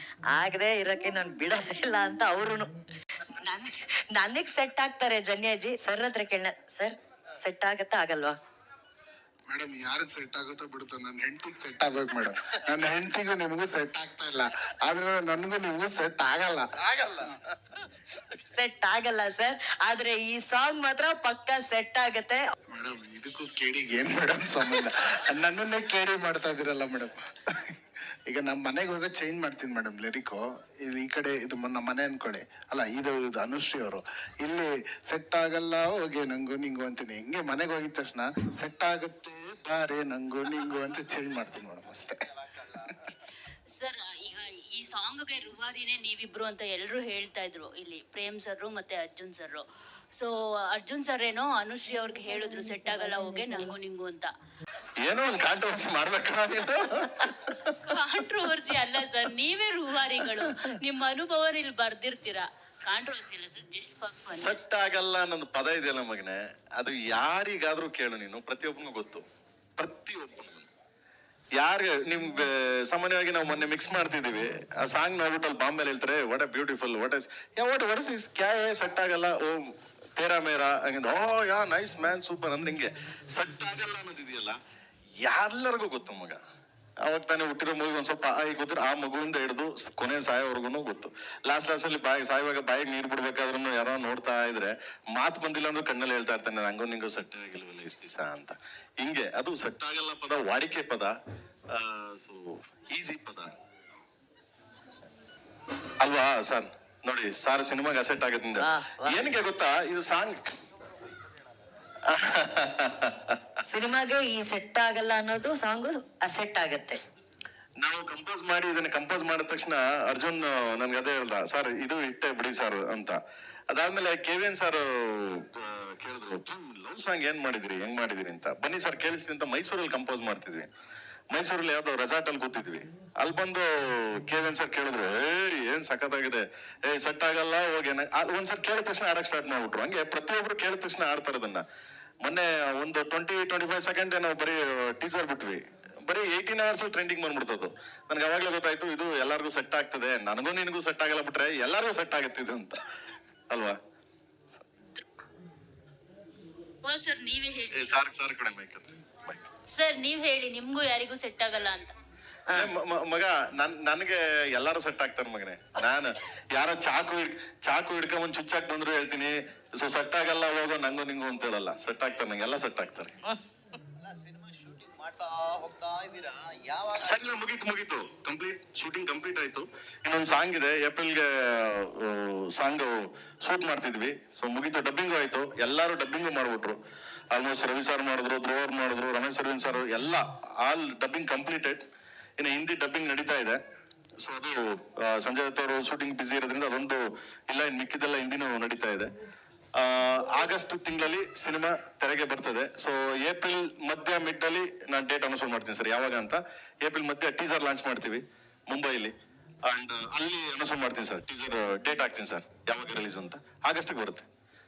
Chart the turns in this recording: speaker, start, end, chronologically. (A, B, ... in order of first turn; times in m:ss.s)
0:00.3-0:02.7 A
0:03.4-0:08.4 A
0:09.5-0:17.1 B
0:18.3-0:22.5 A
0:22.7-0:27.1 B
0:28.3-0:42.9 B
0:43.8-0:54.3 C
0:55.0-0:57.8 D
0:57.8-1:04.6 C
1:04.2-1:09.2 D
1:09.8-1:10.7 D
1:11.6-1:24.6 D
1:25.2-1:26.4 D
1:27.0-1:41.1 D
1:41.7-1:43.5 D
1:46.0-1:50.4 D
1:48.6-1:49.2 A
1:52.1-1:53.4 D
1:53.6-1:57.0 A
1:57.8-2:03.2 D
2:03.7-2:10.7 D
2:11.3-2:21.6 D
2:22.2-2:32.8 D
2:33.5-2:33.8 D
2:36.8-2:38.0 C
2:37.7-2:39.4 D
2:39.7-2:41.9 C
2:42.5-2:53.2 D
2:54.0-2:57.2 E
2:57.0-3:06.8 D
3:07.3-3:11.8 D
3:12.4-3:13.6 D
3:14.2-3:19.1 D
3:19.8-3:29.1 D
3:29.7-3:34.2 D